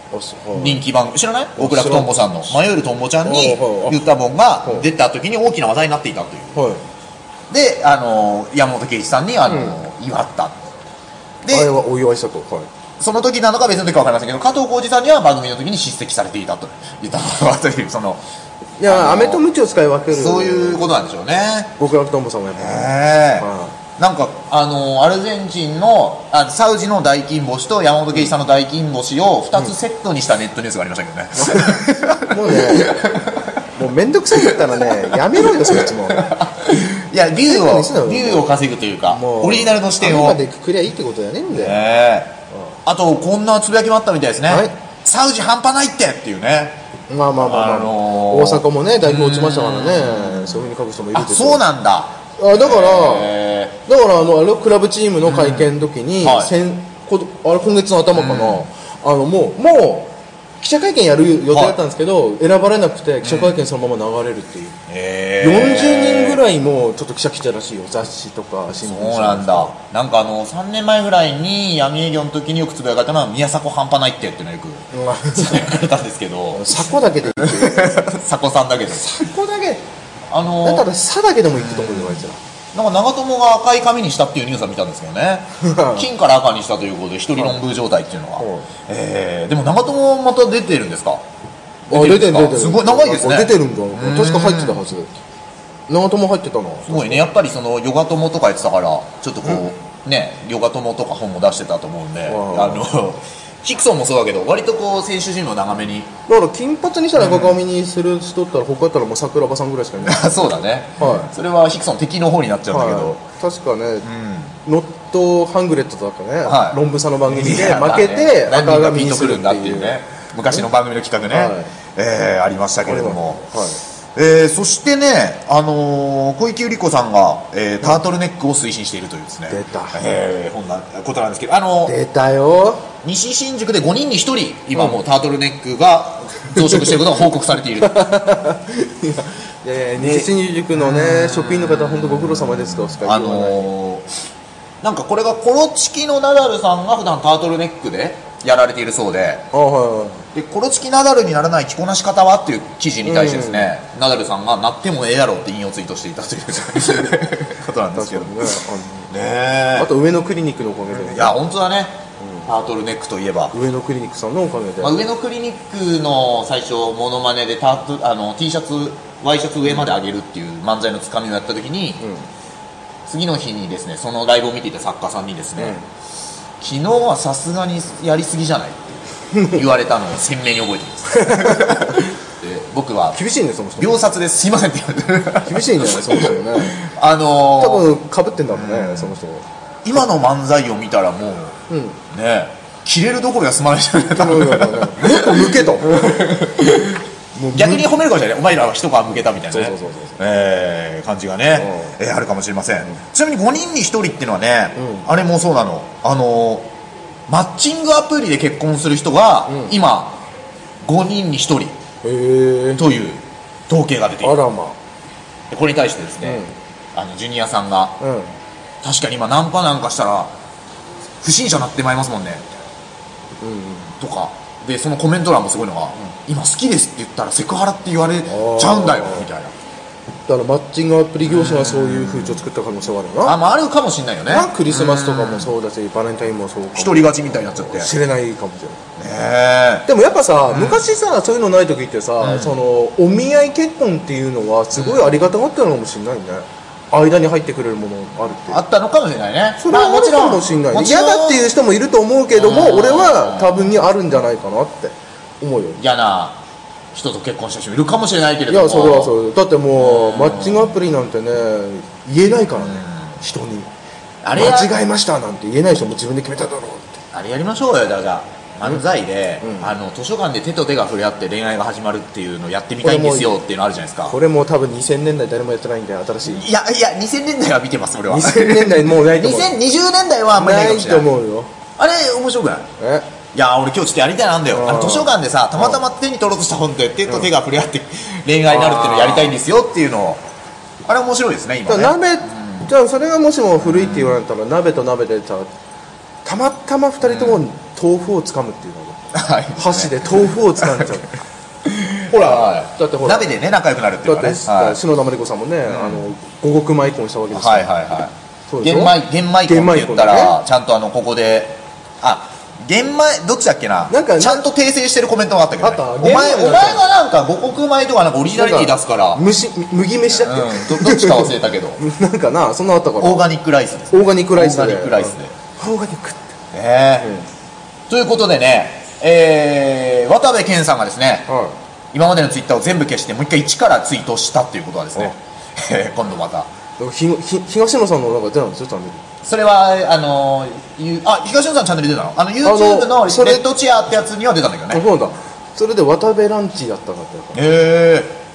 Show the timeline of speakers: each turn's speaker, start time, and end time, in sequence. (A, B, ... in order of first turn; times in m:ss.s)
0:00.1-0:00.8 A
0:00.5-0:06.6 B
0:01.6-0:02.1 A
0:03.2-0:04.0 A
0:06.5-0:06.8 A
0:07.5-0:10.6 B
0:09.5-0:09.8 A
0:11.4-0:11.7 B
0:11.5-0:12.7 A
0:13.0-0:18.2 B
0:18.8-0:20.9 A
0:18.8-0:19.4 B
0:20.1-0:21.7 B
0:21.8-0:23.8 A
0:22.6-0:33.6 B
0:31.3-0:32.9 A
0:33.8-0:36.3 A
0:34.5-0:40.4 B
0:37.4-0:38.5 A
0:39.1-0:41.8 A
0:41.5-0:46.8 B
0:44.5-0:44.7 A
0:47.1-0:51.6 A
0:47.4-0:53.7 B
0:52.4-0:53.3 A
0:53.8-1:04.8 A
0:55.2-0:56.5 B
0:58.1-0:58.7 B
1:03.2-1:03.6 B
1:04.9-1:06.4 B
1:05.4-1:09.7 A
1:08.8-1:16.8 B
1:14.9-1:15.6 A
1:16.5-1:18.0 A
1:17.4-1:19.2 B
1:19.0-1:19.8 A
1:20.3-1:20.9 B
1:20.6-1:22.4 A
1:21.6-1:22.2 B
1:22.7-1:31.2 B
1:25.6-1:26.1 A
1:28.4-1:28.7 A
1:31.9-1:35.1 A
1:31.9-1:34.8 B
1:35.9-1:37.2 A
1:36.8-1:46.1 B
1:42.3-1:42.9 A
1:46.3-1:50.3 A
1:47.2-1:47.6 B
1:50.0-1:53.2 B
1:51.0-1:51.3 A
1:52.7-1:54.1 A
1:54.0-1:54.5 B
1:54.6-2:00.0 A
1:56.4-1:56.8 B
1:57.3-2:03.5 B
2:01.3-2:01.7 A
2:02.8-2:03.8 A
2:04.1-2:12.0 B
2:09.5-2:10.0 A
2:11.9-2:12.9 A
2:13.0-2:18.1 B
2:16.6-2:17.0 A
2:17.8-2:23.7 A
2:20.0-2:24.1 B
2:24.8-2:29.5 B
2:29.5-2:30.2 A
2:30.3-2:38.6 B
2:33.0-2:33.7 A
2:37.9-2:39.1 A
2:39.1-2:39.9 B
2:39.8-2:41.4 A
2:40.9-2:43.5 B
2:43.5-2:45.0 A
2:44.8-2:52.0 B
2:52.0-2:52.2 A
2:53.0-2:55.8 B
2:55.6-2:55.8 A
2:56.6-3:03.2 B
2:59.3-2:59.6 A
3:01.1-3:02.1 A
3:03.1-3:04.0 A
3:03.8-3:07.9 B
3:05.4-3:06.8 A
3:07.6-3:09.4 A
3:08.5-3:09.2 B
3:09.8-3:11.6 B
3:11.7-3:12.0 A
3:12.1-3:17.0 B
3:14.1-3:16.4 A
3:17.4-3:17.9 A
3:17.5-3:26.7 B
3:19.5-3:20.2 A
3:21.5-3:22.0 A
3:24.8-3:25.1 A
3:27.3-3:30.2 B
3:29.5-3:29.7 A
3:30.8-3:31.7 B
3:32.0-3:32.8 A
3:32.8-3:34.4 B
3:34.2-3:34.8 A
3:35.5-3:36.4 B
3:36.2-3:36.5 A
3:36.9-3:38.0 B
3:38.0-3:38.3 A
3:38.8-3:40.3 B
3:41.2-3:42.4 B
3:43.4-3:43.9 A
3:44.0-3:49.5 B
3:48.3-3:49.3 A
3:50.3-3:53.4 A
3:51.2-3:52.4 B
3:53.2-3:55.5 B
3:54.3-3:58.8 A
3:56.7-3:57.9 B
3:59.0-3:59.8 B
3:59.8-4:08.6 A
4:00.5-4:00.8 B
4:02.2-4:02.5 B
4:04.7-4:05.2 B
4:08.5-4:11.5 B
4:09.6-4:15.8 A
4:12.3-4:13.8 B
4:15.8-4:16.4 B
4:16.9-4:19.1 B
4:18.5-4:23.7 A
4:19.8-4:20.7 B
4:22.6-4:23.2 B
4:24.2-4:24.7 B
4:24.3-4:27.0 A
4:27.1-4:34.2 B
4:29.4-4:29.7 A
4:32.8-4:33.4 A
4:34.1-4:36.4 A
4:36.2-4:41.1 B
4:38.1-4:39.6 A
4:40.4-4:41.5 A
4:41.8-4:42.7 B
4:42.8-4:43.1 A
4:43.3-4:50.2 B
4:44.5-4:45.8 A
4:48.5-4:49.4 A
4:50.8-4:52.7 B
4:51.7-4:55.5 A
4:53.6-4:54.2 B
4:56.2-4:59.0 A
4:57.0-4:57.4 B
4:59.1-5:00.9 B
4:59.6-5:01.1 A
5:01.6-5:04.8 B
5:02.1-5:03.3 A
5:04.0-5:07.7 A
5:05.7-5:06.0 B
5:07.3-5:19.2 B
5:08.5-5:10.4 A
5:13.9-5:14.5 A
5:15.6-5:16.8 A
5:18.3-5:23.3 A
5:20.1-5:21.8 B
5:23.0-5:25.4 B
5:23.9-5:26.3 A
5:26.5-5:27.1 B
5:27.0-5:27.3 A
5:27.9-5:31.3 B
5:31.3-5:31.5 A
5:31.9-5:36.5 B
5:36.8-5:39.0 A
5:39.2-5:44.8 B
5:42.4-5:43.4 A
5:44.7-5:47.4 A
5:47.3-5:48.1 B